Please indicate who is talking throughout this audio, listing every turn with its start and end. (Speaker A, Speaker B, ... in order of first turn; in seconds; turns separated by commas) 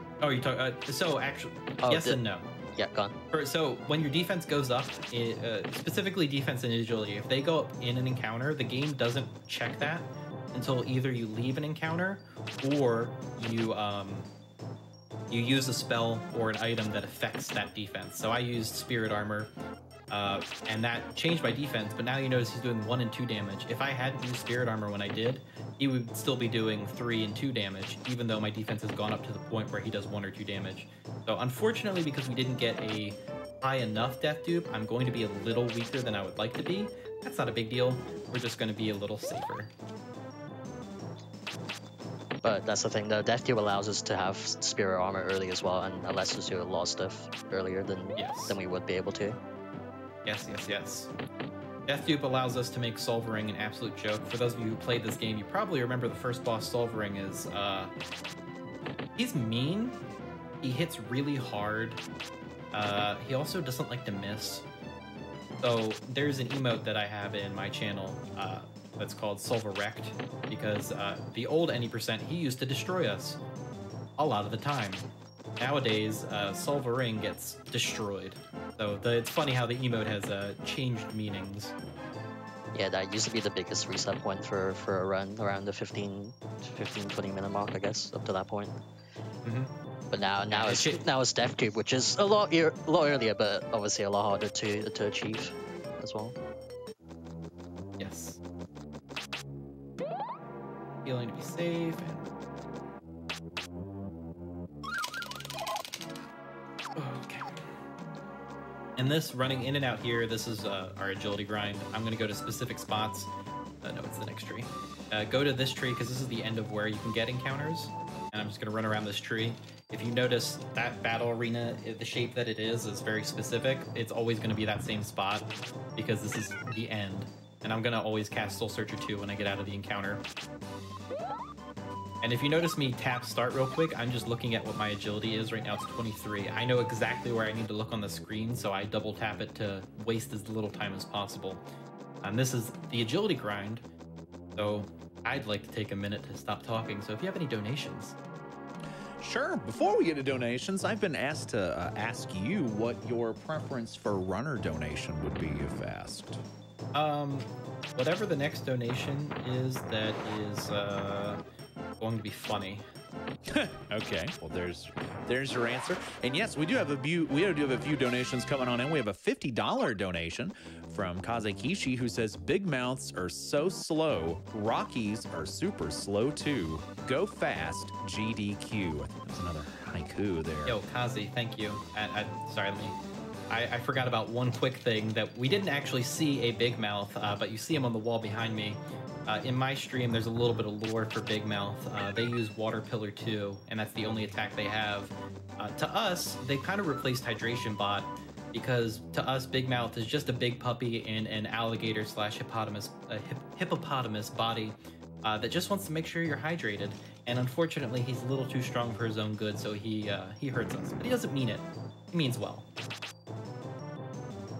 Speaker A: 0.2-2.5, Speaker B: 1.8-2.2, Speaker B: 2.7-3.2, Speaker A: 3.3-14.3, Speaker A: 15.3-19.5, Speaker A: 20.1-39.7, Speaker B: 42.4-49.4, Speaker A: 48.2-48.6, Speaker A: 50.2-51.1, Speaker A: 51.9-57.9, Speaker A: 59.1-60.0, Speaker A: 60.6-62.0, Speaker A: 62.7-64.6, Speaker A: 65.6-73.4, Speaker A: 74.2-75.0, Speaker A: 75.6-81.7, Speaker B: 82.7-88.8, Speaker A: 89.4-89.7, Speaker B: 90.1-96.3, Speaker A: 90.5-91.0, Speaker A: 98.0-98.4, Speaker A: 101.0-102.3, Speaker A: 106.9-107.6, Speaker A: 109.0-113.3, Speaker A: 113.8-130.2, Speaker A: 132.2-141.6, Speaker A: 142.2-143.8, Speaker A: 144.6-148.2, Speaker C: 149.2-156.4, Speaker A: 156.9-161.4, Speaker A: 162.0-162.8, Speaker C: 163.4-180.8, Speaker A: 180.6-182.9, Speaker A: 183.5-212.7